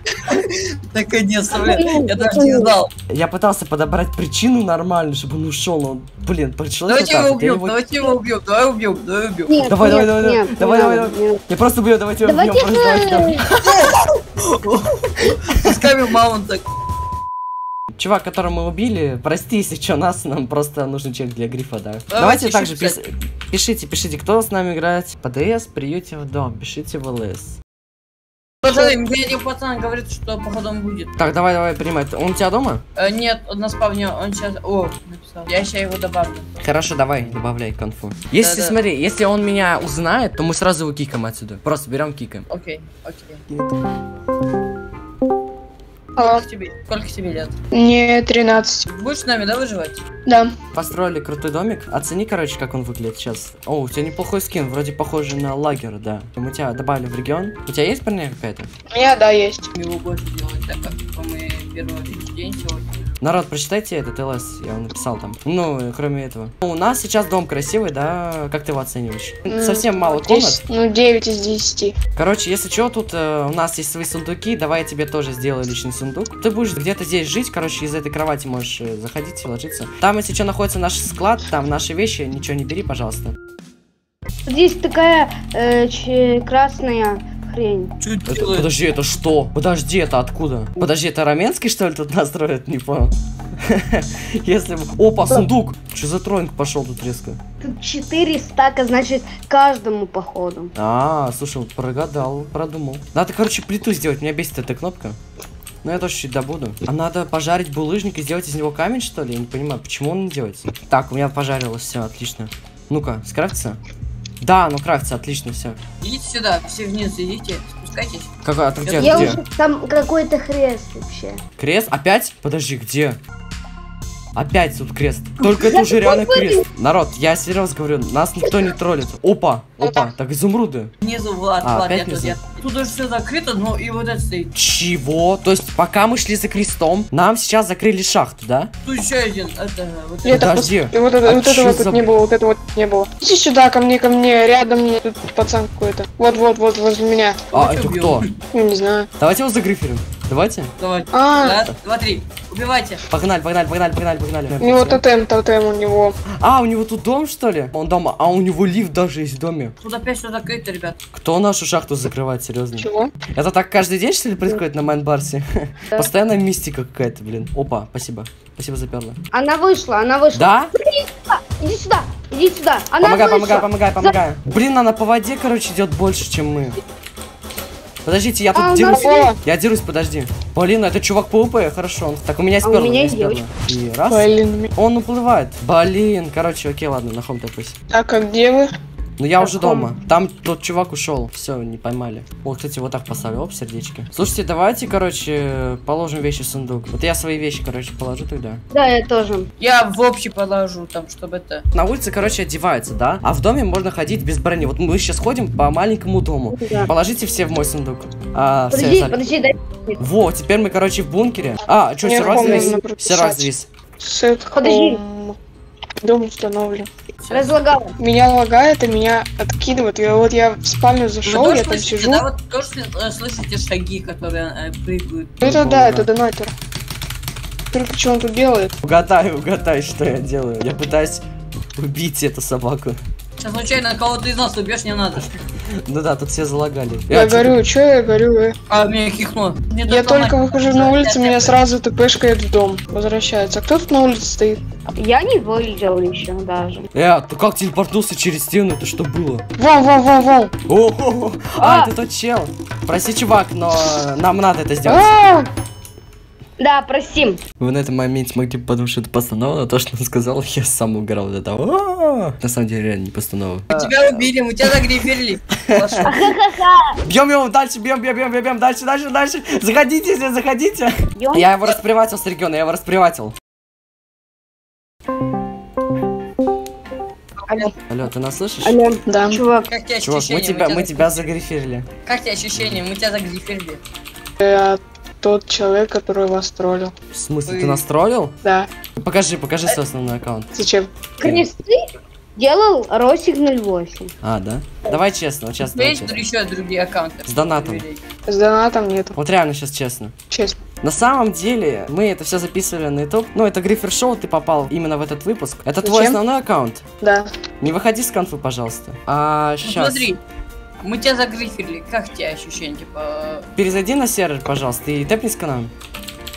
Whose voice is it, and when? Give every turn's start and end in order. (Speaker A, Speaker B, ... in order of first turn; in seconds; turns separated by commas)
Speaker A: 0.2-2.9, Speaker B: 1.5-2.7, Speaker C: 3.1-7.8, Speaker A: 6.9-9.6, Speaker B: 9.5-11.4, Speaker C: 9.7-13.8, Speaker B: 12.2-13.5, Speaker A: 13.6-16.6, Speaker C: 18.0-27.6, Speaker A: 22.1-23.0, Speaker A: 28.6-31.1, Speaker C: 31.2-32.8, Speaker A: 33.0-36.5, Speaker C: 36.6-42.5, Speaker A: 38.4-38.8, Speaker A: 42.5-43.4, Speaker D: 46.2-46.5, Speaker A: 46.2-47.5, Speaker D: 47.7-48.9, Speaker A: 48.9-50.0, Speaker D: 50.3-50.5, Speaker C: 50.7-58.7, Speaker D: 58.9-59.7, Speaker A: 59.8-63.2, Speaker C: 63.2-70.6, Speaker D: 69.5-72.0, Speaker C: 72.2-83.3, Speaker B: 84.5-87.9, Speaker A: 88.0-88.7, Speaker C: 88.3-97.4, Speaker B: 97.6-100.7, Speaker C: 100.8-105.2, Speaker C: 105.8-113.8, Speaker C: 114.4-115.8, Speaker A: 116.0-118.3, Speaker C: 118.4-119.4, Speaker A: 118.8-119.4, Speaker B: 119.0-121.4, Speaker C: 121.6-123.2, Speaker C: 124.3-130.9, Speaker B: 125.6-126.7, Speaker A: 131.0-134.5, Speaker C: 131.6-132.4, Speaker C: 134.5-138.7, Speaker A: 138.8-140.6, Speaker D: 140.2-147.4, Speaker C: 140.3-142.2, Speaker A: 147.5-148.3, Speaker C: 147.5-148.3, Speaker D: 148.5-149.1, Speaker C: 149.2-150.7, Speaker A: 150.8-153.0, Speaker D: 151.1-151.7, Speaker C: 153.1-155.0, Speaker D: 154.6-156.2, Speaker C: 156.4-159.8, Speaker A: 159.8-161.0, Speaker C: 161.1-169.2, Speaker D: 162.8-163.1, Speaker B: 169.3-174.2, Speaker C: 170.3-170.7, Speaker C: 173.0-176.8, Speaker C: 178.1-187.8, Speaker B: 178.6-179.3, Speaker D: 179.0-179.4, Speaker B: 182.6-183.4, Speaker D: 184.1-184.7, Speaker D: 187.9-188.7, Speaker C: 189.2-198.6, Speaker B: 189.4-189.9, Speaker B: 198.7-199.5, Speaker A: 199.6-201.7, Speaker C: 201.7-209.2, Speaker B: 206.5-206.9, Speaker B: 208.7-210.0, Speaker C: 210.0-213.7, Speaker D: 212.0-215.4, Speaker B: 212.2-212.8, Speaker B: 214.5-215.0, Speaker D: 216.0-216.9, Speaker A: 217.2-217.5, Speaker B: 217.3-218.0, Speaker D: 218.0-222.2, Speaker A: 221.2-225.4, Speaker C: 225.4-226.1, Speaker D: 225.4-226.5, Speaker D: 227.7-228.7, Speaker C: 228.8-231.2, Speaker C: 231.8-233.0, Speaker A: 233.4-235.3, Speaker C: 235.7-237.6, Speaker D: 237.1-238.6, Speaker A: 238.7-241.6, Speaker D: 239.9-244.6, Speaker B: 245.0-246.9, Speaker C: 246.9-249.4, Speaker D: 249.6-250.5, Speaker C: 250.7-255.1, Speaker B: 251.6-251.9, Speaker D: 254.9-255.5, Speaker B: 256.6-257.4, Speaker C: 257.6-264.3, Speaker A: 263.7-266.3, Speaker C: 265.6-266.1, Speaker B: 266.0-266.9, Speaker C: 267.1-273.3, Speaker B: 271.2-271.5, Speaker C: 277.9-278.8, Speaker B: 278.6-279.7, Speaker D: 279.1-279.4, Speaker A: 279.7-281.3, Speaker C: 280.0-281.9, Speaker A: 282.1-283.8, Speaker D: 284.4-286.9, Speaker C: 287.1-288.3, Speaker A: 287.5-287.8, Speaker D: 288.4-288.7, Speaker C: 289.0-290.5, Speaker D: 290.5-290.9, Speaker B: 291.2-291.8, Speaker C: 291.2-291.5, Speaker B: 292.4-294.1, Speaker C: 294.2-296.2, Speaker A: 295.6-298.0, Speaker C: 297.3-297.8, Speaker D: 298.3-299.2, Speaker C: 299.2-300.1, Speaker D: 300.3-300.6, Speaker C: 300.8-306.8, Speaker D: 305.8-306.2, Speaker D: 307.0-307.3, Speaker C: 307.6-310.1, Speaker A: 309.6-310.2, Speaker A: 310.8-313.5, Speaker C: 313.6-315.7